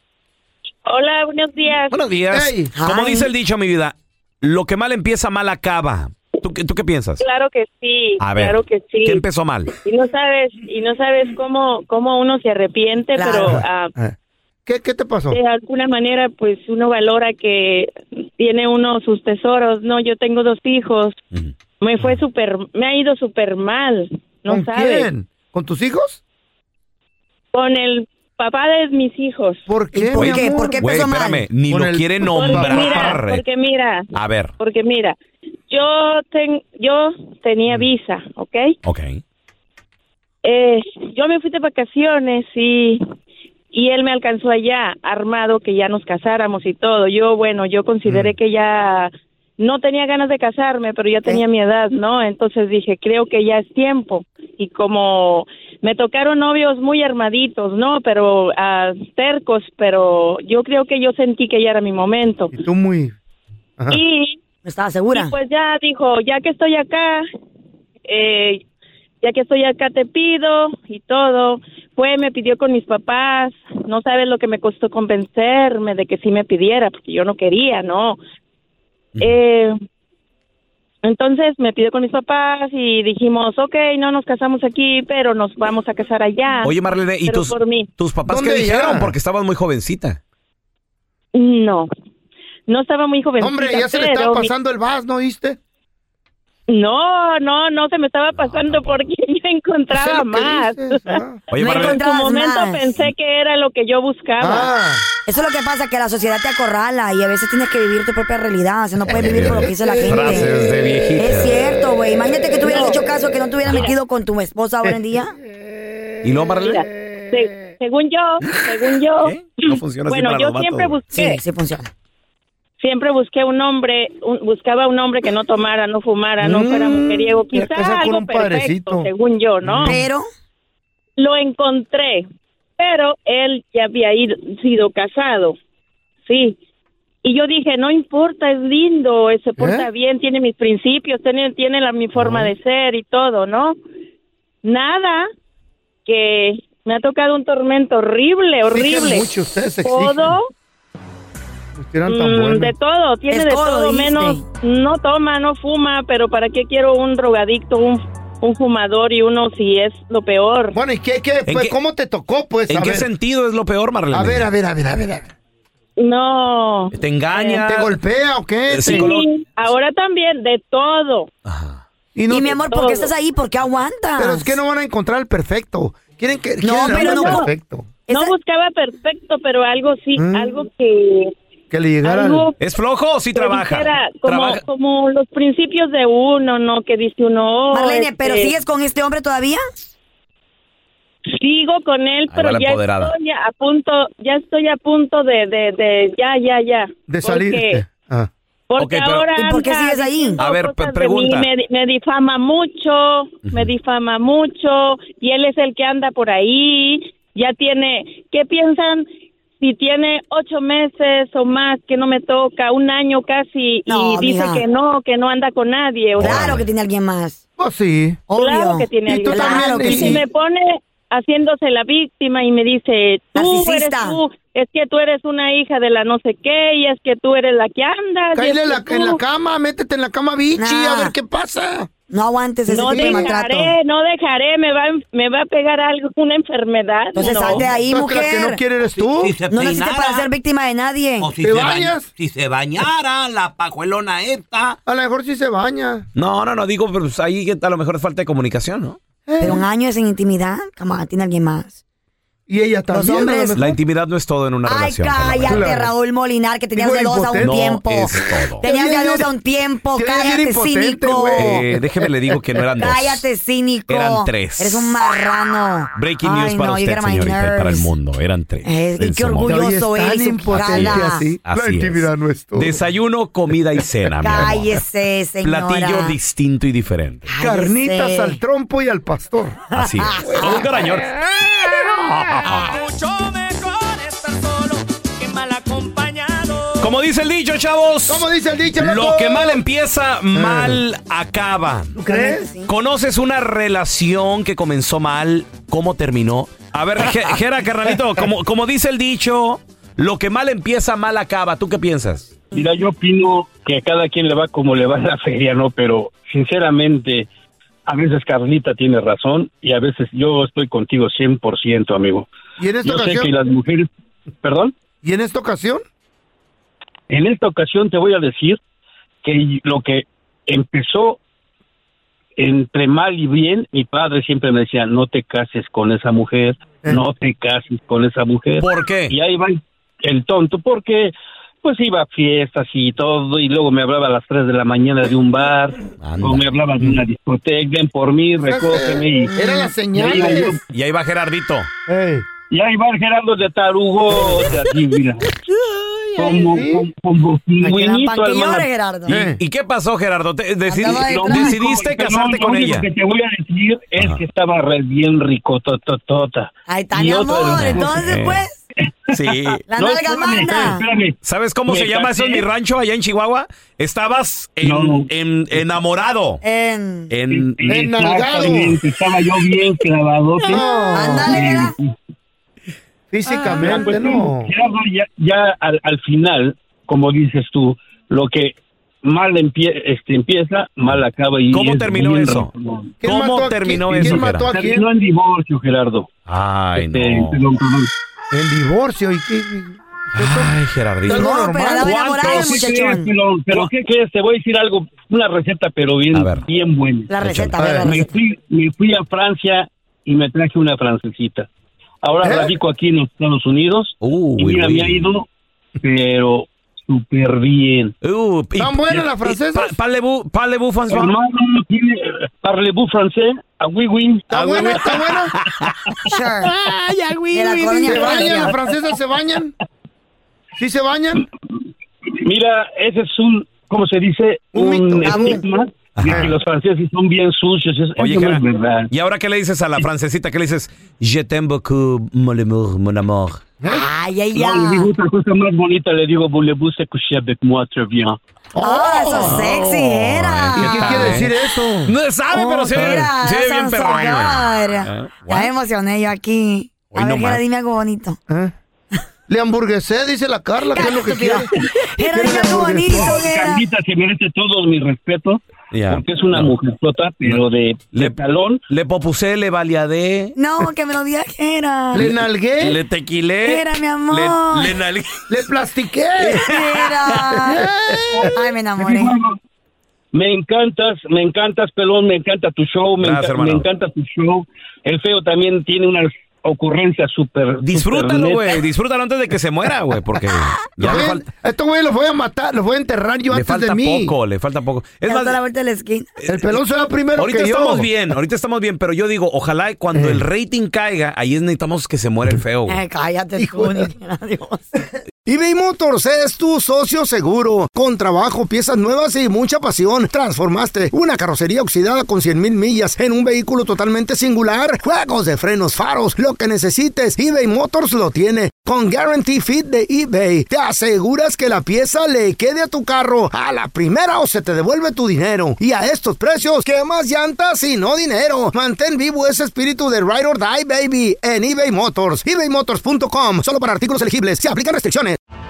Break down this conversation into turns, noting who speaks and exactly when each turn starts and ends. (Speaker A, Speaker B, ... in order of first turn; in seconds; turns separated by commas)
Speaker A: 0.9-2.0, Speaker B: 1.9-7.2, Speaker C: 2.3-2.7, Speaker D: 2.7-3.3, Speaker A: 7.2-9.2, Speaker B: 8.2-9.7, Speaker A: 9.8-13.9, Speaker D: 13.2-13.6, Speaker C: 13.4-14.2, Speaker C: 14.7-15.4, Speaker A: 15.3-21.2, Speaker B: 21.3-22.1, Speaker A: 21.8-25.1, Speaker C: 24.5-26.2, Speaker A: 27.5-29.6, Speaker C: 29.7-30.9, Speaker D: 29.9-31.4, Speaker B: 30.1-33.4, Speaker C: 31.7-33.2, Speaker A: 32.2-34.1, Speaker B: 34.1-34.5, Speaker A: 34.6-35.2, Speaker A: 35.7-38.8, Speaker B: 38.8-39.2, Speaker A: 40.4-43.0, Speaker A: 43.7-62.5, Speaker C: 62.5-63.1, Speaker A: 63.9-64.4, Speaker D: 64.7-65.3, Speaker A: 65.1-67.2, Speaker A: 68.1-68.6, Speaker A: 69.2-78.2, Speaker A: 79.2-79.8, Speaker A: 81.0-86.7, Speaker B: 86.6-90.2, Speaker A: 87.2-87.9, Speaker C: 88.3-89.2, Speaker A: 91.3-91.9, Speaker A: 92.7-94.5, Speaker C: 93.4-95.6, Speaker A: 96.7-104.7, Speaker B: 98.4-99.1, Speaker C: 99.9-101.4, Speaker B: 101.5-102.0, Speaker D: 101.6-102.9, Speaker C: 104.4-105.1, Speaker D: 105.3-110.5, Speaker B: 109.1-111.6, Speaker C: 109.4-110.3, Speaker D: 111.2-115.3, Speaker A: 112.7-113.0, Speaker A: 113.7-114.0, Speaker B: 116.2-116.8, Speaker A: 116.6-119.3, Speaker B: 119.2-121.0, Speaker A: 120.1-121.4, Speaker D: 121.1-121.9, Speaker A: 122.8-130.0, Speaker C: 126.4-129.1, Speaker C: 129.6-130.0, Speaker D: 129.8-130.3, Speaker A: 131.2-132.3, Speaker A: 132.8-135.6, Speaker A: 136.2-136.6, Speaker A: 137.2-143.8, Speaker C: 139.6-139.9, Speaker C: 142.2-142.5, Speaker A: 144.6-145.3, Speaker A: 146.1-149.3, Speaker C: 148.7-150.4, Speaker A: 149.8-150.5, Speaker C: 151.8-152.7, Speaker A: 152.1-160.8, Speaker D: 153.3-154.4, Speaker C: 160.7-163.1, Speaker B: 161.5-161.8, Speaker B: 162.7-164.5, Speaker C: 164.1-165.3, Speaker A: 166.0-167.7, Speaker B: 166.9-167.9, Speaker C: 167.6-169.1, Speaker B: 168.7-169.3, Speaker A: 168.8-171.3, Speaker B: 171.5-171.8, Speaker C: 172.2-172.6, Speaker D: 172.3-174.6, Speaker A: 172.6-173.1, Speaker C: 174.2-177.9, Speaker D: 176.6-177.5, Speaker A: 176.8-177.5, Speaker D: 178.1-178.3, Speaker A: 178.1-181.3, Speaker C: 180.2-180.6, Speaker C: 181.7-182.5, Speaker A: 182.0-182.5, Speaker B: 182.6-184.6, Speaker A: 183.3-188.5, Speaker D: 187.7-189.6, Speaker A: 191.3-197.8, Speaker B: 192.3-193.2, Speaker C: 197.1-198.3, Speaker A: 198.7-209.1, Speaker B: 198.8-199.3, Speaker D: 199.4-200.4, Speaker B: 200.4-201.5, Speaker B: 203.5-203.7, Speaker A: 209.6-216.6, Speaker D: 213.9-214.6, Speaker B: 216.2-216.6, Speaker D: 216.2-217.4, Speaker C: 217.6-218.2, Speaker D: 218.3-220.2, Speaker A: 218.4-229.2, Speaker C: 219.0-220.2, Speaker D: 223.3-224.2, Speaker C: 228.3-231.9, Speaker D: 230.6-231.1, Speaker D: 232.1-233.7, Speaker A: 232.7-237.7, Speaker C: 232.9-233.3, Speaker D: 237.1-238.6, Speaker C: 237.6-239.4, Speaker E: 239.0-240.3, Speaker D: 239.4-241.3, Speaker E: 241.2-244.8, Speaker C: 241.4-242.1, Speaker C: 244.9-246.1, Speaker B: 246.2-249.0, Speaker C: 249.3-249.6, Speaker D: 249.4-251.8, Speaker C: 252.5-253.8, Speaker D: 252.9-253.6, Speaker B: 253.6-255.7, Speaker D: 254.7-261.6, Speaker C: 255.5-255.9, Speaker C: 256.8-259.3, Speaker B: 257.4-258.7, Speaker C: 259.9-262.4, Speaker B: 261.3-263.2, Speaker D: 262.8-267.9, Speaker B: 263.9-264.9, Speaker B: 265.9-269.6, Speaker D: 268.6-271.2, Speaker C: 269.4-272.8, Speaker B: 270.5-274.8, Speaker D: 274.2-276.2, Speaker B: 275.4-277.3, Speaker D: 277.3-278.4, Speaker C: 277.4-279.7, Speaker B: 279.7-281.2, Speaker D: 279.8-280.7, Speaker B: 282.0-282.7, Speaker F: 282.6-286.9, Speaker B: 286.8-288.3, Speaker C: 288.1-289.6, Speaker B: 288.8-292.0, Speaker C: 290.3-290.8, Speaker C: 291.9-292.5, Speaker D: 292.1-292.7, Speaker B: 292.7-302.3, Speaker G: 302.5-307.3, Speaker G: 307.9-312.3, Speaker C: 312.6-313.3, Speaker G: 312.8-313.9, Speaker G: 314.4-314.7, Speaker C: 315.0-315.8, Speaker G: 317.1-318.6, Speaker G: 319.2-321.2, Speaker G: 322.4-339.3, Speaker B: 328.6-329.1, Speaker B: 336.0-337.0, Speaker C: 338.4-340.6, Speaker D: 339.3-339.7, Speaker G: 339.9-340.6, Speaker B: 340.7-341.7, Speaker C: 341.9-342.3, Speaker G: 342.5-345.2, Speaker G: 346.2-348.7, Speaker C: 346.2-346.9, Speaker D: 347.6-349.2, Speaker C: 349.1-349.4, Speaker B: 349.1-352.9, Speaker D: 350.7-351.6, Speaker G: 350.9-358.0, Speaker D: 356.7-358.6, Speaker B: 357.3-358.4, Speaker G: 359.1-361.2, Speaker B: 359.1-359.6, Speaker D: 359.7-360.9, Speaker B: 361.2-366.4, Speaker G: 361.7-362.5, Speaker G: 364.6-365.1, Speaker D: 366.4-367.1, Speaker B: 367.1-367.6, Speaker G: 367.3-371.9, Speaker C: 367.7-368.8, Speaker C: 370.4-371.4, Speaker D: 370.5-371.8, Speaker C: 373.1-374.5, Speaker G: 373.3-382.9, Speaker B: 381.5-382.5, Speaker C: 383.0-384.9, Speaker B: 383.0-384.5, Speaker G: 383.9-386.1, Speaker B: 386.3-387.4, Speaker G: 386.8-387.9, Speaker C: 388.3-391.9, Speaker B: 390.1-392.7, Speaker D: 391.1-393.1, Speaker G: 392.0-397.1, Speaker B: 396.1-396.5, Speaker D: 397.1-398.2, Speaker B: 397.2-397.6, Speaker C: 397.6-398.0, Speaker G: 397.7-401.5, Speaker G: 402.0-405.3, Speaker C: 402.2-402.6, Speaker B: 404.0-405.1, Speaker G: 405.8-407.9, Speaker B: 408.0-411.1, Speaker C: 408.6-409.7, Speaker G: 410.9-415.0, Speaker C: 414.3-415.4, Speaker B: 414.5-415.1, Speaker D: 416.0-416.5, Speaker D: 417.3-418.6, Speaker C: 417.7-419.5, Speaker B: 417.7-418.2, Speaker C: 420.6-421.2, Speaker G: 422.2-428.9, Speaker C: 424.5-425.4, Speaker D: 425.1-425.4, Speaker B: 426.0-426.4, Speaker B: 428.0-433.4, Speaker D: 433.7-434.9, Speaker G: 434.3-438.2, Speaker C: 438.6-439.5, Speaker D: 438.6-441.1, Speaker B: 439.2-441.3, Speaker C: 440.6-441.9, Speaker B: 441.9-445.5, Speaker D: 442.3-448.2, Speaker C: 442.7-443.0, Speaker B: 446.9-447.4, Speaker C: 449.3-453.2, Speaker D: 450.7-453.6, Speaker G: 452.9-458.6, Speaker B: 455.7-456.5, Speaker B: 457.9-460.3, Speaker D: 460.4-462.1, Speaker C: 461.9-462.8, Speaker B: 462.0-465.3, Speaker D: 463.4-464.7, Speaker C: 465.3-466.6, Speaker B: 466.2-467.2, Speaker D: 466.4-467.7, Speaker C: 467.1-468.3, Speaker G: 468.1-469.4, Speaker D: 468.2-469.2, Speaker G: 470.1-478.6, Speaker B: 473.0-473.7, Speaker B: 477.6-481.2, Speaker C: 480.8-484.1, Speaker B: 483.3-485.4, Speaker D: 485.1-486.1, Speaker B: 486.2-486.5, Speaker C: 486.3-487.9, Speaker B: 487.2-492.8, Speaker C: 489.9-490.2, Speaker D: 492.7-494.6, Speaker C: 493.4-493.9, Speaker C: 495.3-525.2